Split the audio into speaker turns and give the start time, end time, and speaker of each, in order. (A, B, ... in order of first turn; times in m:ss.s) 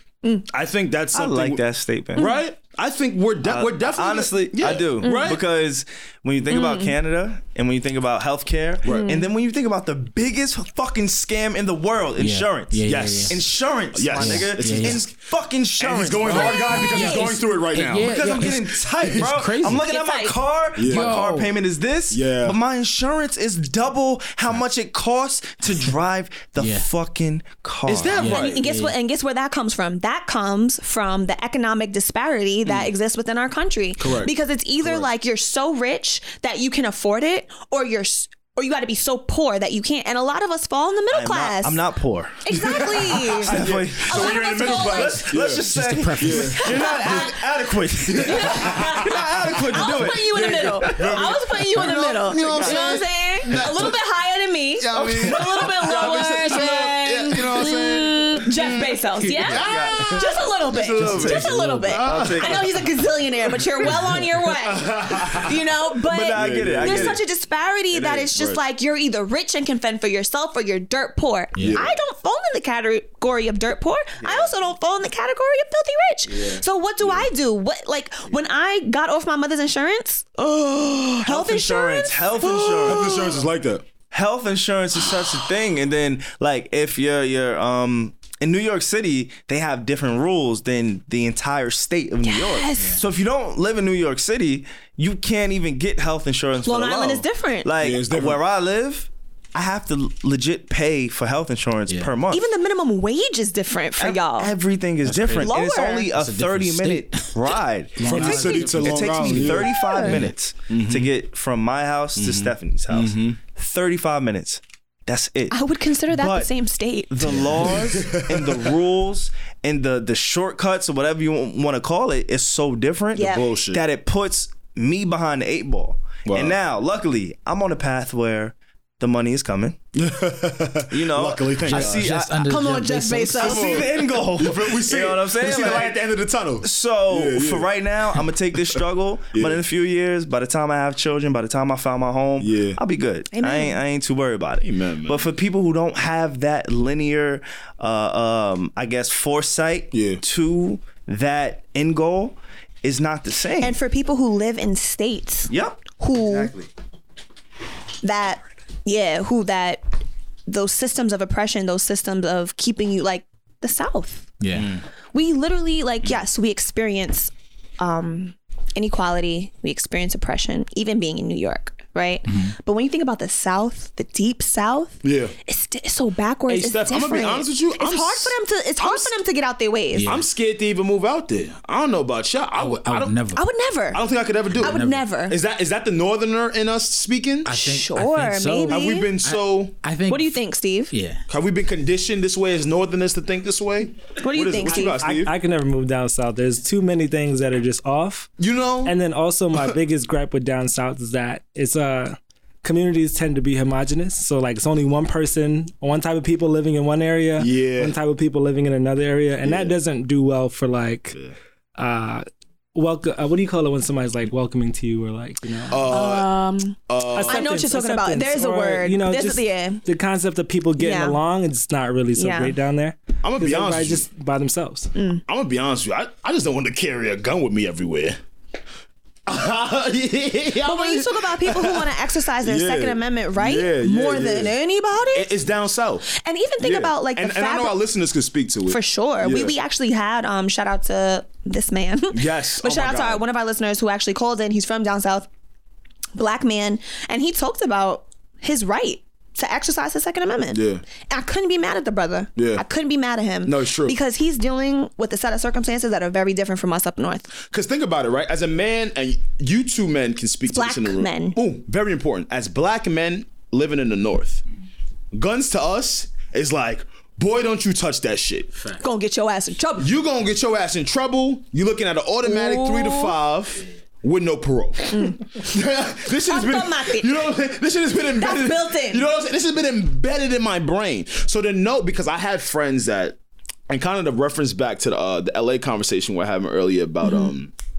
0:00.5-0:01.6 A
0:01.1-0:02.3 B
0:02.1-0:05.4 A
0:03.4-0:16.8 B
0:05.0-0:05.4 C
0:06.5-0:06.9 C
0:08.8-0:09.1 A
0:08.8-0:09.3 C
0:12.2-0:13.4 D
0:12.8-0:15.1 A
0:14.1-0:15.0 D
0:15.8-0:19.3 A
0:16.2-0:17.5 C
0:16.7-0:19.8 D
0:18.0-0:28.2 B
0:19.8-0:20.4 C
0:20.7-0:21.2 A
0:20.8-0:21.5 D
0:22.1-0:22.6 A
0:26.6-0:26.9 D
0:27.9-0:41.8 C
0:28.0-0:28.6 A
0:28.2-0:28.9 D
0:34.0-0:35.0 A
0:41.1-0:51.3 B
0:42.4-0:45.3 C
0:42.5-0:47.4 A
0:45.6-0:46.6 D
0:46.6-0:47.4 C
0:48.0-0:53.9 A
0:48.1-1:23.4 C
0:52.3-0:53.8 B
0:54.8-1:02.7 A
0:54.9-0:56.5 B
0:59.4-1:00.2 B
1:01.0-1:02.7 B
1:01.5-1:01.9 D
1:04.6-1:05.6 A
1:06.0-1:07.2 B
1:06.3-1:07.2 A
1:07.9-1:08.6 A
1:11.6-1:12.0 A
1:14.2-1:14.5 B
1:16.3-1:17.3 A
1:21.2-1:23.1 B
1:22.7-1:23.8 A
1:24.1-1:42.4 B
1:32.2-1:33.0 C
1:36.6-1:37.7 C
1:37.8-1:38.4 A
1:42.3-1:44.5 C
1:44.0-1:56.5 B
1:45.0-1:45.6 D
1:45.4-1:46.1 C
1:46.1-1:50.3 D
1:48.0-1:50.2 A
1:49.5-1:50.2 C
1:50.7-1:51.1 A
1:52.2-1:53.4 A
1:55.5-1:57.2 C
1:57.1-2:09.8 B
1:57.2-1:57.8 D
1:57.6-1:58.7 A
2:03.1-2:03.4 C
2:03.1-2:03.8 A
2:06.2-2:06.6 A
2:09.9-2:12.1 A
2:10.9-2:12.6 B
2:11.7-2:13.5 D
2:12.4-2:13.8 C
2:13.3-2:16.0 B
2:13.4-2:17.7 A
2:16.6-2:33.8 B
2:19.3-2:19.6 A
2:22.4-2:22.8 A
2:23.3-2:23.8 C
2:24.6-2:25.3 A
2:29.9-2:30.2 A
2:33.6-2:36.5 C
2:35.5-2:36.7 B
2:38.0-2:39.8 C
2:40.5-2:44.3 C
2:44.4-2:44.8 D
2:44.5-2:44.8 A
2:45.1-3:00.2 C
2:52.2-2:52.5 D
2:55.0-2:55.3 A
2:56.5-2:59.1 A
2:59.9-3:00.2 D
3:00.0-3:03.1 A
3:02.6-3:03.4 D
3:03.3-3:05.4 C
3:03.9-3:07.5 A
3:04.6-3:05.0 D
3:07.4-3:10.4 D
3:07.5-3:09.1 C
3:08.6-3:09.8 A
3:10.1-3:10.9 C
3:10.9-3:11.2 D
3:11.3-3:15.3 A
3:14.2-3:15.0 C
3:14.8-3:18.3 E
3:18.4-3:18.9 A
3:18.8-3:31.2 E
3:27.4-3:28.0 A
3:29.4-3:29.8 A
3:31.8-3:35.9 E
3:35.7-3:36.3 A
3:35.8-3:39.8 C
3:36.9-3:37.6 A
3:37.1-3:44.9 E
3:40.8-3:41.2 C
3:42.1-3:42.6 C
3:43.2-3:44.1 A
3:44.9-3:45.2 C
3:45.3-3:48.2 A
3:49.3-3:51.9 A
3:50.6-3:55.3 C
3:52.4-3:54.5 A
3:55.1-3:56.1 A
3:56.1-3:57.8 C
3:56.6-3:59.5 A
3:58.7-4:05.3 C
4:02.1-4:03.2 A
4:06.2-4:17.4 C
4:10.5-4:10.8 A
4:12.4-4:12.6 A
4:13.4-4:14.0 A
4:17.5-4:24.4 A
4:20.5-4:21.4 C
4:25.1-4:28.5 A
4:28.8-4:29.9 C
4:29.8-4:43.2 A
4:32.2-4:33.1 C
4:34.9-4:35.2 C
4:36.2-4:37.3 C
4:38.1-4:39.0 C
4:43.7-4:47.5 A
4:47.0-4:47.3 C